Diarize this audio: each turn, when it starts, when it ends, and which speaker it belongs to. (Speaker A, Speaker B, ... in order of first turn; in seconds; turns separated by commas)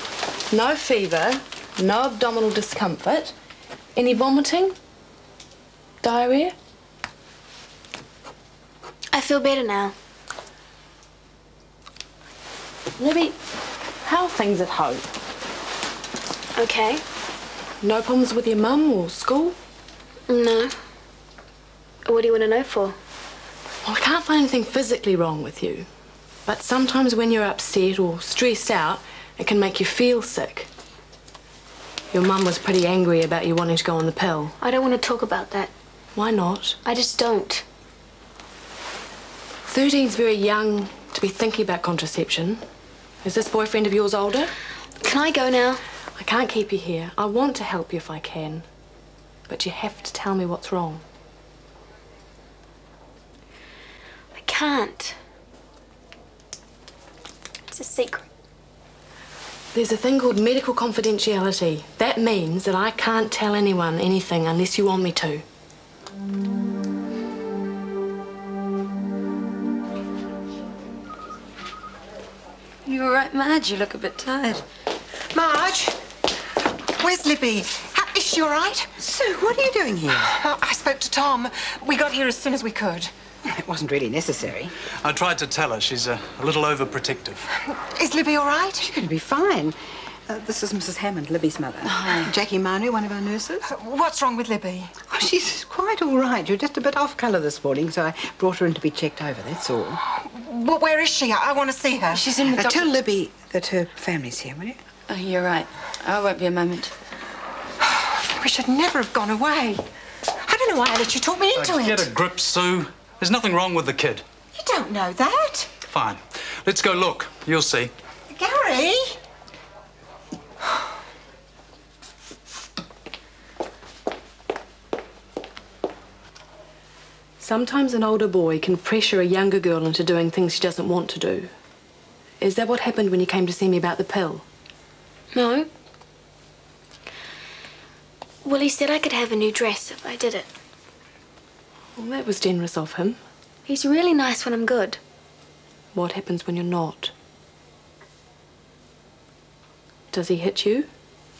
Speaker A: 0.5-3.3, Speaker A: 3.9-4.7, Speaker A: 6.0-6.5, Speaker B: 9.1-9.9, Speaker A: 13.0-13.4, Speaker A: 14.0-15.1, Speaker B: 16.6-17.0, Speaker A: 17.8-19.6, Speaker B: 20.3-20.7, Speaker B: 22.1-22.9, Speaker A: 23.8-25.9, Speaker A: 26.4-30.7, Speaker A: 32.1-34.5, Speaker B: 34.6-35.7, Speaker A: 36.1-36.8, Speaker B: 36.8-37.6, Speaker A: 39.7-42.6, Speaker A: 43.2-44.5, Speaker B: 45.0-45.8, Speaker A: 46.2-48.6, Speaker A: 49.5-51.0, Speaker B: 54.3-55.2, Speaker B: 57.7-58.2, Speaker A: 59.7-65.4, Speaker C: 72.8-74.6, Speaker D: 75.3-76.0, Speaker D: 77.0-83.1, Speaker E: 83.5-84.7, Speaker F: 85.0-87.5, Speaker D: 88.0-88.9, Speaker E: 88.9-89.8, Speaker E: 90.3-93.6, Speaker C: 91.8-92.3, Speaker D: 93.7-95.0, Speaker E: 95.0-100.0, Speaker D: 100.1-102.2, Speaker C: 102.1-102.9, Speaker E: 102.5-104.8, Speaker C: 105.1-106.9, Speaker D: 107.8-109.8, Speaker D: 110.4-112.1, Speaker F: 111.5-114.2, Speaker D: 114.5-115.7, Speaker F: 115.8-117.9, Speaker D: 118.3-119.2, Speaker A: 127.4-131.5, Speaker A: 132.4-134.4, Speaker B: 135.3-135.7, Speaker B: 138.4-140.5, Speaker A: 141.9-143.2, Speaker B: 143.7-145.0, Speaker A: 145.9-147.1, Speaker A: 150.1-150.9